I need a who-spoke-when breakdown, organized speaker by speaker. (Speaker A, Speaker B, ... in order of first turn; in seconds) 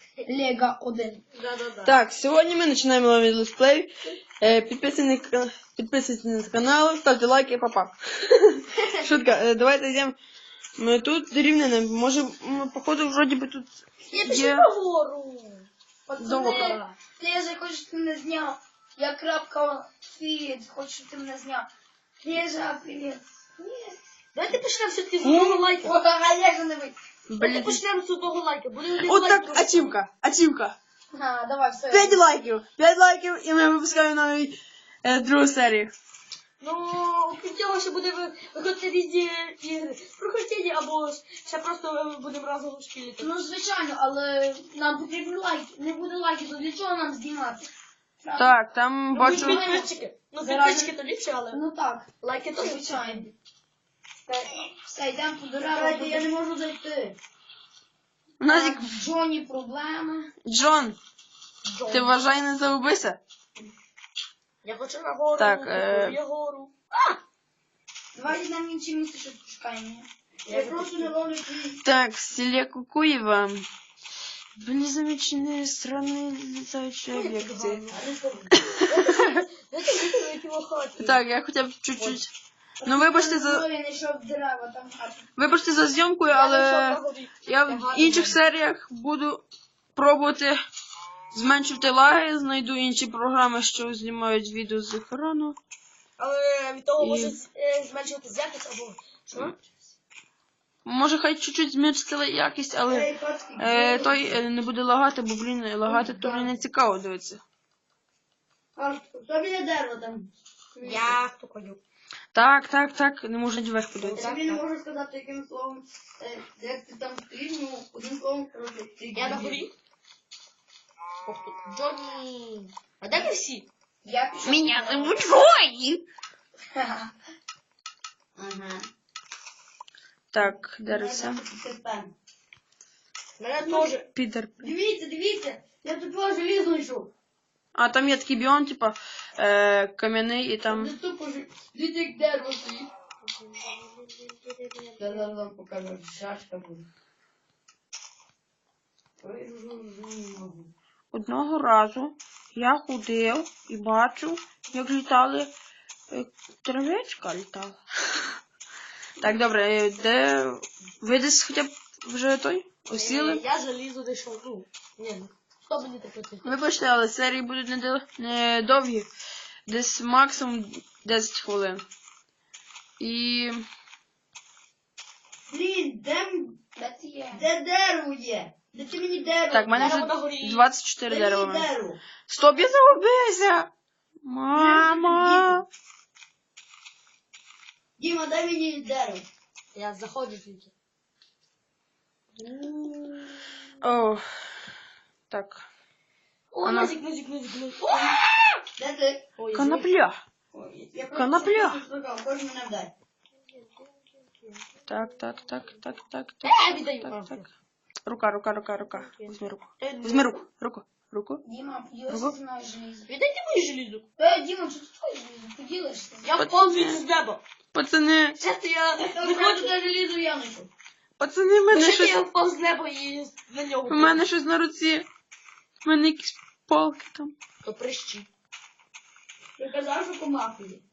Speaker A: 0.2-1.2, 16.1-21.7, 22.2-24.0, 25.2-26.9, 31.1-32.2, 43.2-48.6, 49.2-51.0, 51.5-53.3, 54.3-56.3, 58.4-60.3, 68.2-70.1, 82.8-85.2, 124.0-125.2, 126.8-127.1, 176.8-177.5, 211.4-213.1, 214.2-216.3
Speaker B: 1.3-2.0, 14.1-15.7, 16.3-17.0, 24.4-25.9, 27.4-29.9, 36.6-43.3, 49.1-51.6, 52.2-53.3, 61.6-62.3, 64.6-67.2, 70.5-71.2, 77.1-78.1, 78.8-81.2, 86.3-88.4, 96.2-99.7, 110.8-111.8, 114.1-114.6, 119.1-119.7, 121.2-123.7, 133.4-134.1, 143.2-145.3, 162.9-166.6, 179.8-180.7, 189.8-190.7, 192.4-193.5, 196.5-198.3, 199.4-199.9, 203.5-205.9, 206.4-207.5, 208.8-210.4, 213.1-214.1, 216.2-217.4, 218.4-219.8, 221.7-224.3, 227.6-228.3
Speaker C: 1.9-10.2, 10.8-14.7, 16.2-16.7, 27.3-27.8, 29.0-30.8, 31.9-35.9, 48.4-49.7, 58.4-59.0, 60.5-61.0, 61.9-63.2, 65.4-66.2, 71.8-73.7, 74.6-77.8, 78.8-79.2, 81.0-82.3, 82.8-83.6, 85.4-89.4, 90.0-90.6, 91.3-95.6, 97.0-97.4, 100.8-107.4, 112.3-114.3, 124.4-126.0, 130.3-131.4, 134.1-134.7, 137.8-140.9, 151.1-155.5, 156.1-157.8, 159.2-163.4, 166.4-169.1, 169.7-171.8, 173.0-173.7, 179.5-181.7, 182.3-183.7, 184.2-185.7, 193.8-194.2, 195.3-195.7, 196.6-197.0, 199.5-200.2, 201.1-201.8, 204.9-207.4, 208.1-211.4, 212.1-212.3, 216.4-217.1, 217.7-218.4, 221.2-222.2, 223.9-225.1, 225.8-227.3
Speaker D: 55.7-57.2, 70.5-71.8, 77.9-78.6, 102.9-104.3, 105.9-106.5, 108.8-111.2, 114.1-119.6, 128.4-128.9, 130.4-132.1, 133.6-133.9, 134.6-137.1, 140.7-142.9, 145.0-146.9, 149.2-150.7, 175.5-176.6, 177.3-180.0, 181.1-182.0, 184.5-185.6, 188.0-189.3, 197.9-198.2, 198.8-199.3, 200.5-202.9, 219.0-220.7, 229.6-230.8